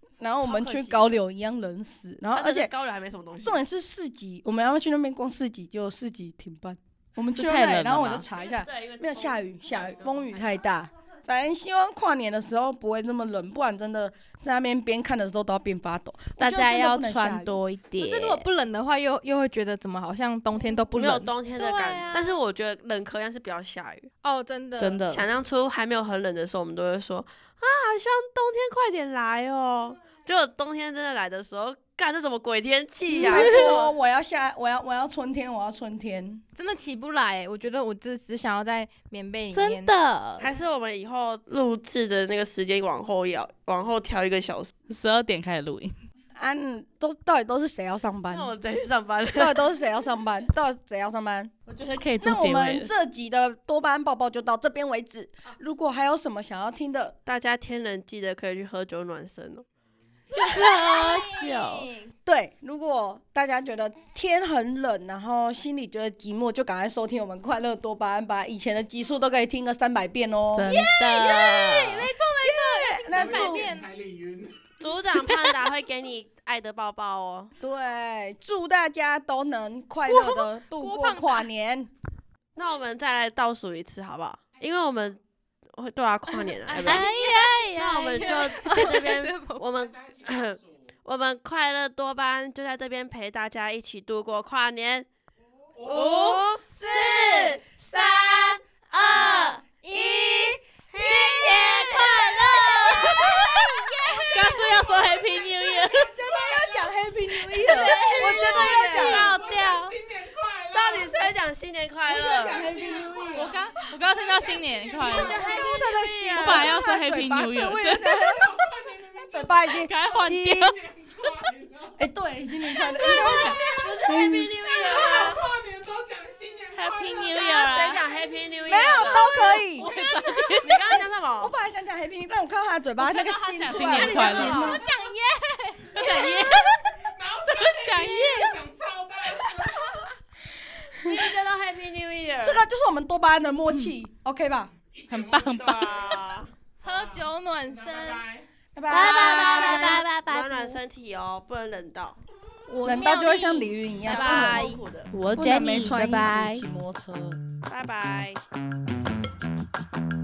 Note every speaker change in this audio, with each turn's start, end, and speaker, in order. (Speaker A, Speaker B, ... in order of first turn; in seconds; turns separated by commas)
Speaker A: 0.2-2.7, Speaker B: 0.4-1.2, Speaker B: 2.3-3.6, Speaker A: 3.4-17.6, Speaker C: 7.3-8.2, Speaker B: 8.4-10.3, Speaker C: 16.4-18.5, Speaker D: 18.0-22.4, Speaker B: 20.9-24.1, Speaker D: 24.2-25.0, Speaker C: 24.8-25.3, Speaker B: 25.1-33.9, Speaker A: 33.1-36.4, Speaker D: 36.6-39.9, Speaker C: 39.5-40.5, Speaker B: 40.4-44.7, Speaker C: 44.9-45.9, Speaker A: 46.4-48.5, Speaker B: 48.3-49.6, Speaker A: 49.4-51.5, Speaker C: 51.7-52.9, Speaker A: 52.2-57.2, Speaker B: 57.3-59.6, Speaker D: 60.3-62.1, Speaker C: 60.3-61.9, Speaker A: 62.3-70.8, Speaker C: 70.5-72.1, Speaker D: 70.7-73.9, Speaker A: 72.4-73.8, Speaker E: 73.1-74.6, Speaker B: 74.8-77.5, Speaker A: 77.6-81.9, Speaker D: 80.1-81.5, Speaker B: 82.6-85.2, Speaker B: 85.7-87.1, Speaker D: 86.6-89.7, Speaker C: 86.8-88.4, Speaker B: 87.7-95.1, Speaker B: 95.8-103.4, Speaker E: 95.8-96.3, Speaker C: 95.9-96.3, Speaker D: 99.0-100.7, Speaker C: 99.1-99.5, Speaker C: 101.0-103.8, Speaker D: 103.0-104.9, Speaker C: 104.3-106.2, Speaker A: 106.0-109.3, Speaker E: 106.2-107.0, Speaker D: 107.5-109.1, Speaker C: 107.6-110.0, Speaker E: 108.5-111.2, Speaker B: 108.6-109.2, Speaker B: 110.7-112.7, Speaker E: 112.1-115.3, Speaker A: 112.5-113.6, Speaker C: 113.3-115.4, Speaker B: 115.0-116.8, Speaker A: 115.2-118.6, Speaker C: 116.3-118.4, Speaker E: 118.2-119.9, Speaker A: 119.3-120.8, Speaker C: 119.7-121.4, Speaker E: 120.7-121.9, Speaker A: 122.0-124.5, Speaker C: 123.0-123.6, Speaker E: 123.0-124.0, Speaker B: 123.7-125.4, Speaker E: 124.7-127.8, Speaker C: 126.7-128.0, Speaker B: 127.4-129.4, Speaker A: 128.7-129.9, Speaker C: 129.7-130.7, Speaker D: 129.8-130.6, Speaker B: 130.6-131.5, Speaker A: 130.6-134.8, Speaker C: 133.0-134.8, Speaker B: 133.8-134.8, Speaker D: 133.9-136.5, Speaker C: 135.9-138.6, Speaker E: 136.0-140.0, Speaker B: 140.9-142.6, Speaker A: 142.4-144.7, Speaker E: 144.9-146.2, Speaker C: 145.1-146.2, Speaker B: 145.6-146.5, Speaker E: 146.8-148.4, Speaker D: 146.8-148.3, Speaker A: 148.8-150.0, Speaker B: 148.9-152.2, Speaker C: 148.9-150.8, Speaker A: 152.7-154.8, Speaker D: 152.8-154.8, Speaker B: 154.1-155.1, Speaker C: 155.1-156.6, Speaker A: 155.3-157.4, Speaker B: 157.7-158.4